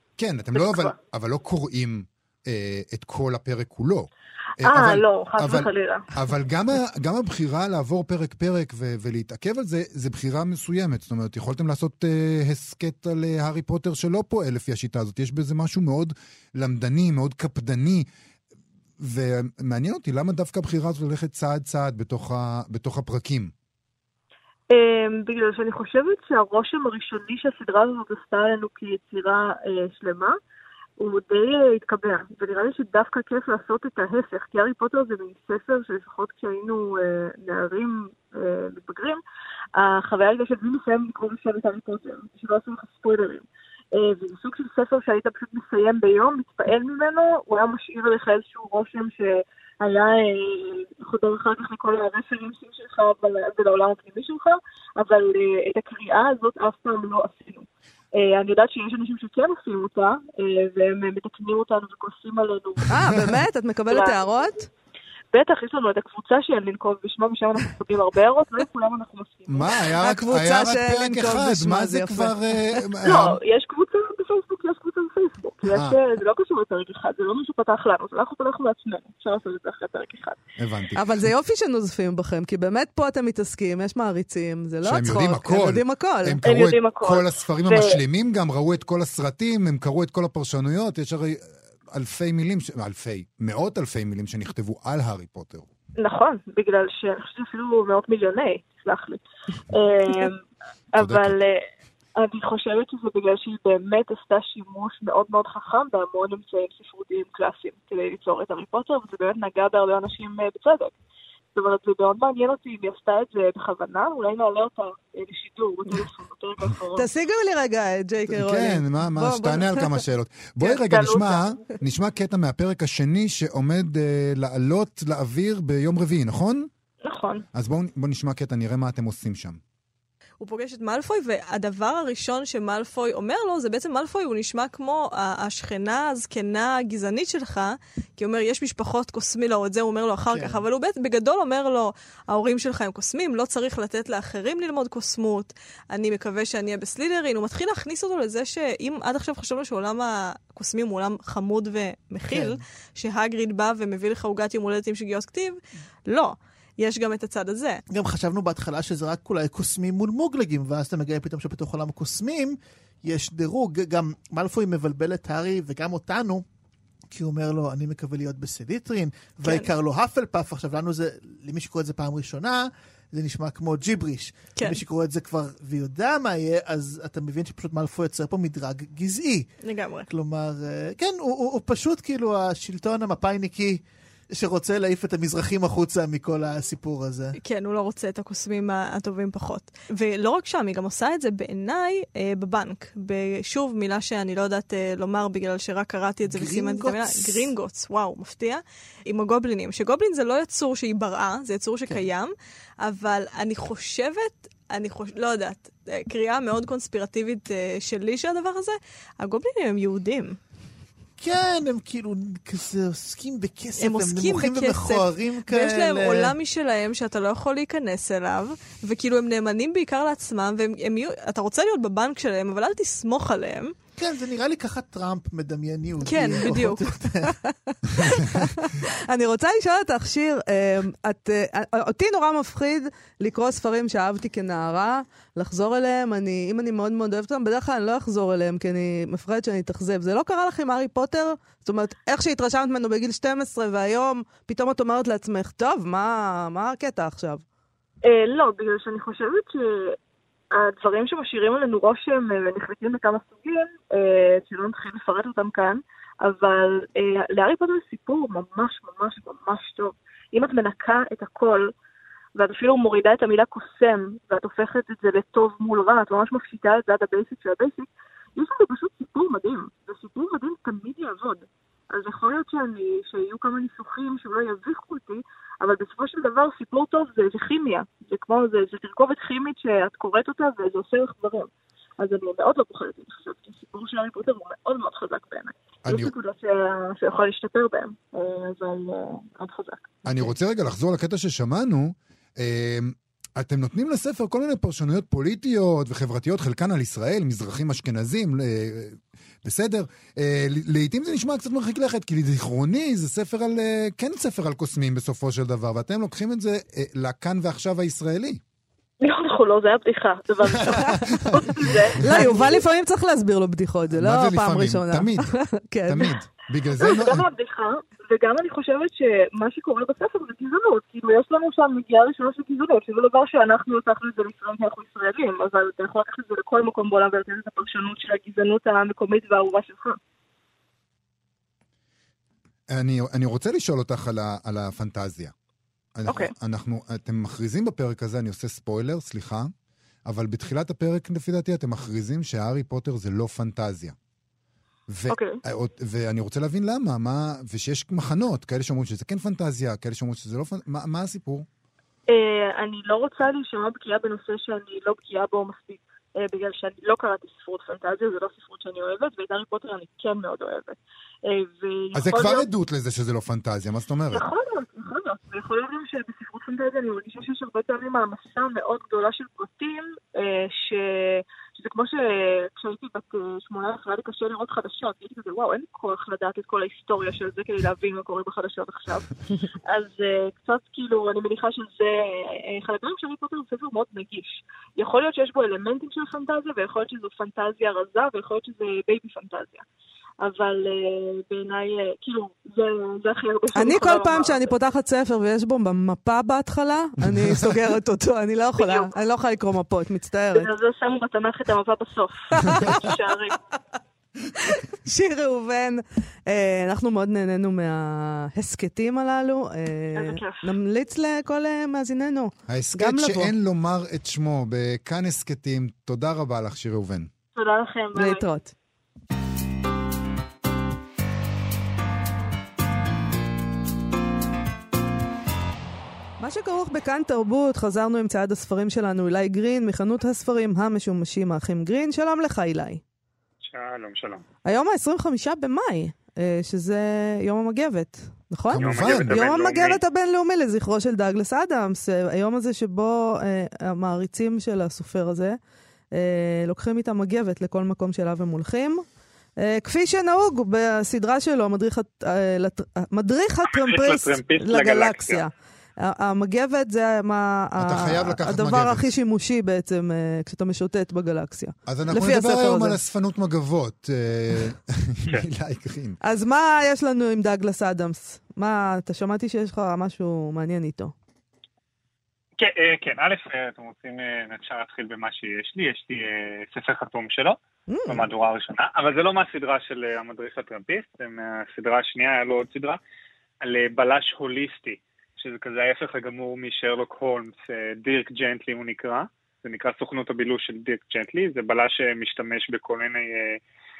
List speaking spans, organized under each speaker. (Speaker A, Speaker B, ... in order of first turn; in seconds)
Speaker A: 0.2-18.1, 19.0-23.5, 69.5-73.4, 75.7-76.0, 80.6-81.3, 84.8-95.7, 101.0-101.3, 118.3-126.7, 127.5-129.6, 285.8-286.1, 290.0-308.4, 310.5-312.5, 313.9-317.3, 332.7-335.3, 335.9-339.5, 340.1-343.9, 344.9-351.5, 361.9-364.3, 412.5-417.1, 438.5-439.2, 457.6-458.9, 461.6-466.0
Speaker B: 0.6-0.9, 4.6-6.1, 24.7-30.4, 31.0-39.2, 39.7-63.3, 65.3-69.7, 73.0-80.4, 86.4-88.0, 96.0-100.4, 100.9-110.9, 111.5-117.1, 120.6-121.5, 127.0-127.4, 248.0-250.0, 250.5-261.7, 262.3-290.1, 309.0-312.3, 316.8-330.0, 336.1-336.3, 345.1-345.4, 352.1-362.5, 364.1-389.6, 390.2-394.5, 398.6-398.9, 400.3-403.4, 409.9-410.4, 417.4-418.2
Speaker C: 62.9-64.7, 70.0-72.3, 81.0-86.4, 117.0-120.0, 228.0-247.4, 312.0-316.1, 393.5-400.5, 402.5-402.8, 404.5-413.3, 417.9-418.5, 426.2-432.8, 434.4-445.4, 445.9-448.8, 449.4-462.8, 466.0-470.9, 477.7-478.1
Speaker D: 130.4-157.8, 179.6-180.1, 187.3-210.4, 213.8-223.8, 226.0-227.0
Speaker E: 140.3-140.6, 152.3-152.6, 157.9-166.4, 167.1-179.4, 180.1-183.8, 184.3-187.3, 196.2-197.5, 211.2-216.3, 224.0-227.3
Speaker F: 433.4-434.2, 438.5-439.8, 453.5-455.2, 472.4-482.8, 483.4-493.4